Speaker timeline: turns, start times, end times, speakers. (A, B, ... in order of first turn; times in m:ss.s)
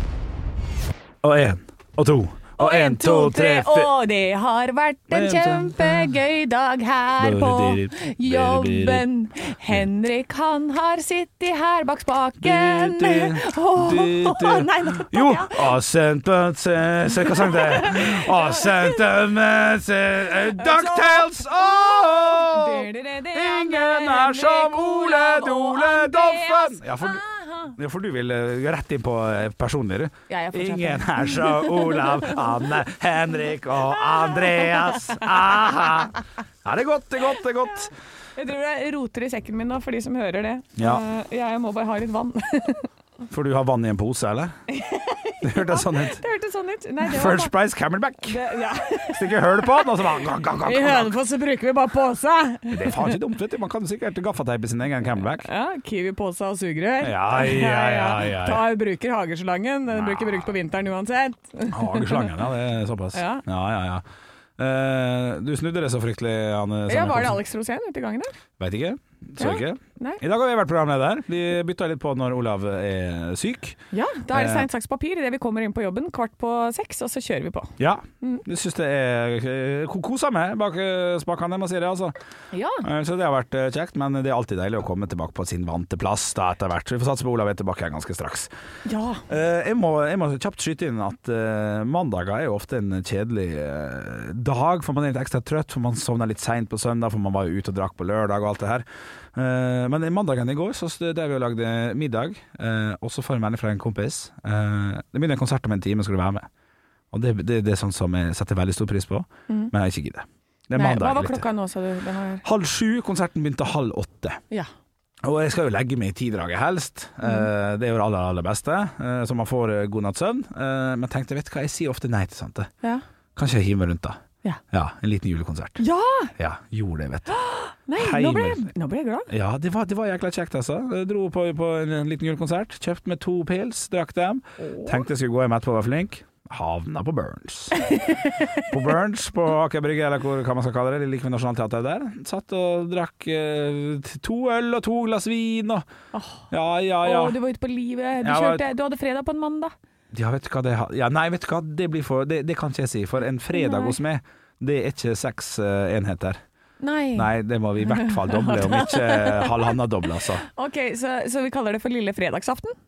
0:01.2-0:03.9 A
0:02.6-0:15.7 B
0:05.1-0:06.2 A
0:07.2-0:09.0 A
0:12.4-0:37.9 A
0:17.2-0:19.0 B
0:20.6-0:27.8 B
0:30.3-0:32.6 B
0:34.0-0:35.2 B
0:38.4-0:42.9 B
0:40.8-0:41.0 A
0:43.3-0:44.5 A
0:44.7-0:47.5 B
0:45.4-0:46.2 A
0:47.0-0:48.4 A
0:48.2-0:53.2 B
0:49.1-0:51.1 A
0:52.7-0:55.4 A
0:55.4-1:02.4 B
0:57.0-0:58.6 A
0:59.9-1:00.5 A
1:01.7-1:04.0 A
1:03.1-1:03.4 B
1:04.6-1:07.4 A
1:06.9-1:08.3 B
1:08.6-1:13.8 A
1:09.4-1:10.2 B
1:13.9-1:18.4 B
1:14.3-1:14.6 A
1:17.8-1:22.1 A
1:22.5-1:22.8 B
1:22.8-1:28.5 A
1:28.8-1:29.2 B
1:29.3-1:46.5 A
1:47.1-1:51.4 A
1:50.7-1:52.4 B
1:52.4-1:54.4 A
1:55.2-2:02.7 A
2:03.4-2:04.2 A
2:04.7-2:05.8 A
2:05.8-2:06.3 B
2:06.4-2:07.4 A
2:07.3-2:09.3 B
2:08.0-2:08.6 A
2:09.3-2:17.8 A
2:14.6-2:15.0 B
2:17.7-2:18.7 B
2:18.7-2:25.8 A
2:26.1-2:26.5 B
2:26.5-2:27.4 A
2:27.0-2:29.7 B
2:28.2-2:28.6 A
2:30.1-2:36.4 A
2:33.5-2:34.0 B
2:36.8-2:37.3 B
2:37.1-2:40.4 A
2:37.8-2:42.8 B